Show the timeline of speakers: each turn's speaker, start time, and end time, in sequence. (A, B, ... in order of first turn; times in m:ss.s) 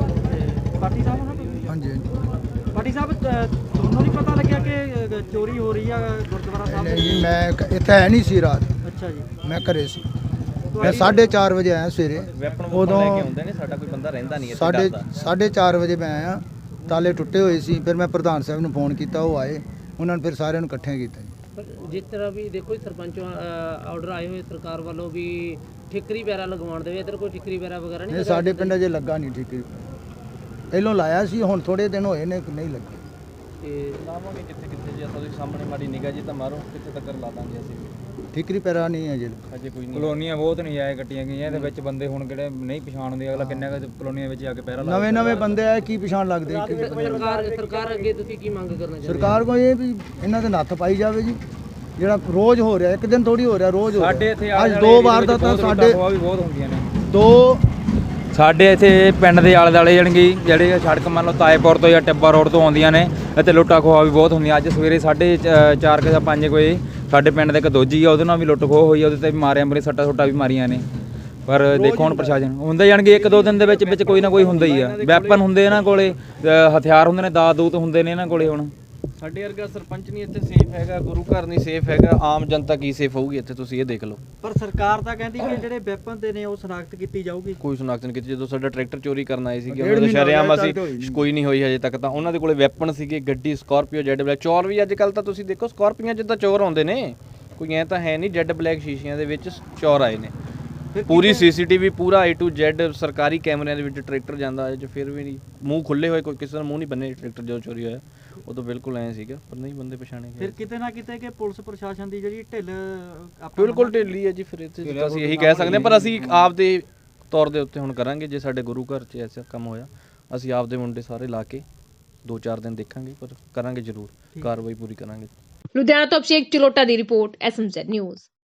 0:00.3-0:01.6 A
0:01.7-0:02.1 B
0:02.7-0:07.3 A
0:06.7-0:08.7 B
0:08.8-0:09.3 A
0:09.4-0:10.0 B
0:10.7-0:11.3 A
0:10.8-0:13.4 B
0:12.3-0:15.1 C
0:14.5-0:21.3 B
0:21.6-0:28.8 D
0:28.1-0:29.9 B
0:30.7-0:33.0 B
0:33.6-0:34.0 D
0:34.0-0:37.9 C
0:38.3-0:39.4 B
0:39.5-0:40.2 C
0:39.9-0:45.6 E
0:43.4-0:43.7 B
0:44.8-0:47.1 B
0:46.5-0:48.1 A
0:46.6-0:49.4 D
0:49.0-0:51.4 B
0:52.0-0:56.0 B
0:53.9-0:56.9 E
0:57.1-0:57.6 B
0:58.3-1:10.8 E
1:11.5-1:18.7 E
1:11.7-1:12.5 B
1:13.0-1:15.8 C
1:19.2-1:24.2 C
1:24.4-1:27.6 A
1:27.6-1:40.3 C
1:29.7-1:31.3 B
1:40.9-1:41.5 A
1:41.1-1:50.6 C
1:50.4-1:54.1 A
1:53.6-2:01.6 C
1:54.8-1:56.6 E
2:02.2-2:05.3 C
2:05.7-2:08.3 F